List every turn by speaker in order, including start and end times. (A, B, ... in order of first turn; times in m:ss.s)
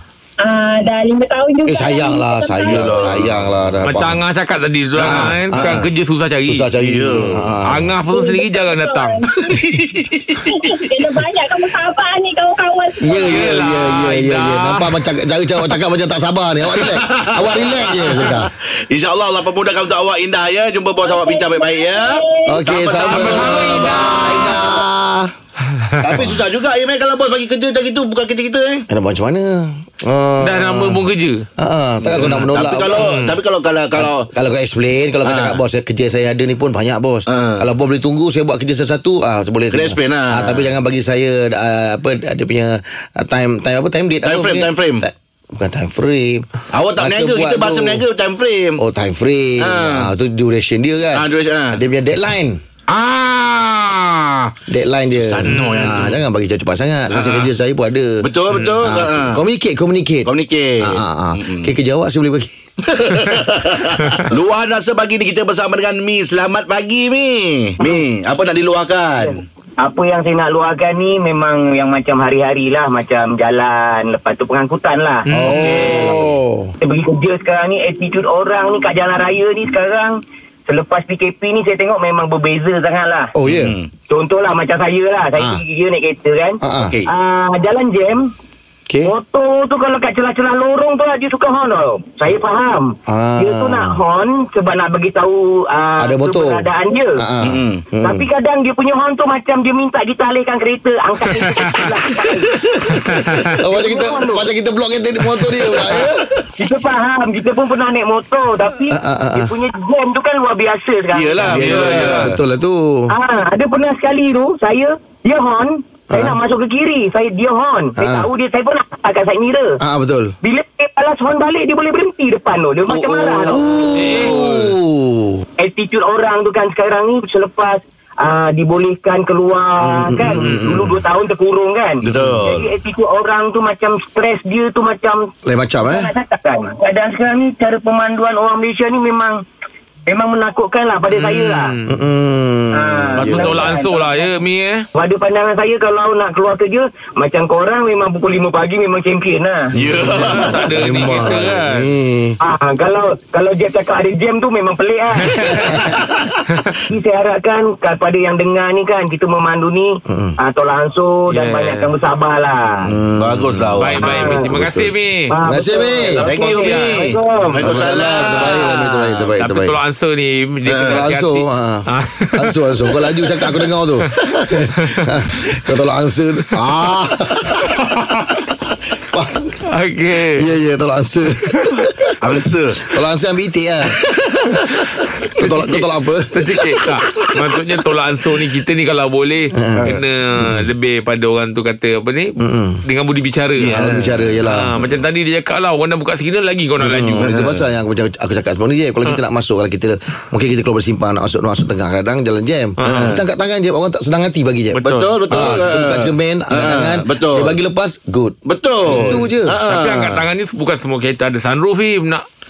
0:00.4-0:03.1 A
0:01.6-0:04.2 B
0:02.7-0:03.7 C
0:03.8-0:09.2 D
0:05.0-0:05.8 B
0:05.0-0:05.8 C
0:06.4-0:07.9 B
0:06.8-0:07.5 C
0:08.1-0:09.6 A
0:09.4-0:10.5 C
0:10.4-0:13.4 A
0:13.0-0:18.5 B
0:13.2-0:15.0 D
0:16.7-0:24.8 C
0:21.0-0:22.6 A
0:22.5-0:25.3 B
0:22.9-0:24.8 D
0:25.9-0:26.2 D
0:26.0-0:28.8 C
0:28.9-0:31.0 B
0:30.4-0:31.4 D
0:31.6-0:33.1 B
0:32.0-0:34.3 C
0:32.2-0:33.4 D
0:34.0-0:48.0 B
0:35.2-0:35.6 C
0:37.3-0:37.6 C
0:39.7-0:40.7 C
0:44.2-0:45.0 C
0:46.7-0:48.8 C
0:48.8-0:52.6 B
0:49.6-0:50.1 C
0:51.1-0:51.8 C
0:52.9-0:54.5 C
0:54.7-0:58.2 B
0:55.1-0:56.2 C
0:55.5-0:56.1 D
0:57.1-0:57.5 C
0:58.2-0:59.4 C
0:58.5-0:58.8 D
0:58.8-1:00.3 B
1:00.2-1:01.7 C
1:00.8-1:02.6 B
1:02.8-1:09.4 C
1:09.8-1:15.2 E
1:15.3-1:16.0 D
1:15.3-1:16.7 B
1:15.4-1:16.3 C
1:16.8-1:23.3 E
1:23.3-1:23.7 B
1:23.4-1:23.9 C
1:24.1-1:28.3 E
1:26.6-1:27.0 B
1:26.7-1:27.1 C
1:29.0-1:37.3 E
1:33.1-1:34.0 B
1:36.0-1:38.2 B
1:37.4-1:37.9 C
1:38.0-1:42.5 E
1:42.6-1:43.0 C
1:42.9-1:43.6 D
1:43.6-1:46.2 B
1:43.7-1:44.5 E
1:45.6-1:46.5 C
1:46.6-1:51.7 E
1:48.8-1:49.5 B
1:51.1-1:52.4 C
1:51.4-1:53.1 B
1:51.6-1:52.2 D
1:53.1-1:59.8 E
1:56.1-1:56.4 B
1:58.0-1:58.3 B
1:59.8-2:00.4 B
2:00.4-2:03.6 E
2:03.5-2:05.4 B
2:03.9-2:04.7 D
2:05.6-2:19.4 E
2:09.8-2:10.6 B
2:10.4-2:10.9 C
2:12.0-2:12.7 C
2:15.4-2:16.1 B
2:20.1-2:21.7 E
2:21.1-2:21.9 D
2:21.9-2:23.7 B
2:22.7-2:24.3 E
2:23.2-2:24.9 D
2:24.9-2:29.7 E
2:29.7-2:31.2 C
2:29.9-2:32.4 B
2:30.0-2:31.9 D
2:32.4-2:35.3 E
2:35.2-2:35.7 D
2:35.6-2:36.0 B
2:36.9-2:42.9 E
2:40.1-2:40.4 B
2:41.3-2:41.9 D
2:42.9-2:44.9 B
2:43.2-2:44.4 C
2:43.8-2:45.3 D
2:44.0-2:44.4 E
2:45.3-2:47.7 E
2:45.4-2:46.2 B
2:46.2-2:48.8 C
2:46.2-2:47.1 D
2:47.6-2:49.7 B
2:48.1-2:52.6 D
2:50.7-2:51.0 C
2:50.8-2:57.7 B
2:54.2-2:55.1 D
2:56.6-2:57.6 C
2:59.1-2:59.6 B
2:59.7-3:00.4 D
3:00.3-3:04.0 B
3:02.2-3:02.8 C
3:05.3-3:13.9 D
3:05.4-3:06.6 B
3:09.5-3:10.6 B
3:12.4-3:12.8 B
3:13.6-3:14.3 C
3:13.7-3:14.8 B
3:14.4-3:17.4 D
3:16.8-3:29.6 B
3:17.2-3:17.6 C
3:22.8-3:23.2 D
3:22.8-3:23.2 C
3:24.8-3:25.5 D
3:24.8-3:27.6 C
3:28.4-3:30.2 C
3:28.9-3:32.2 D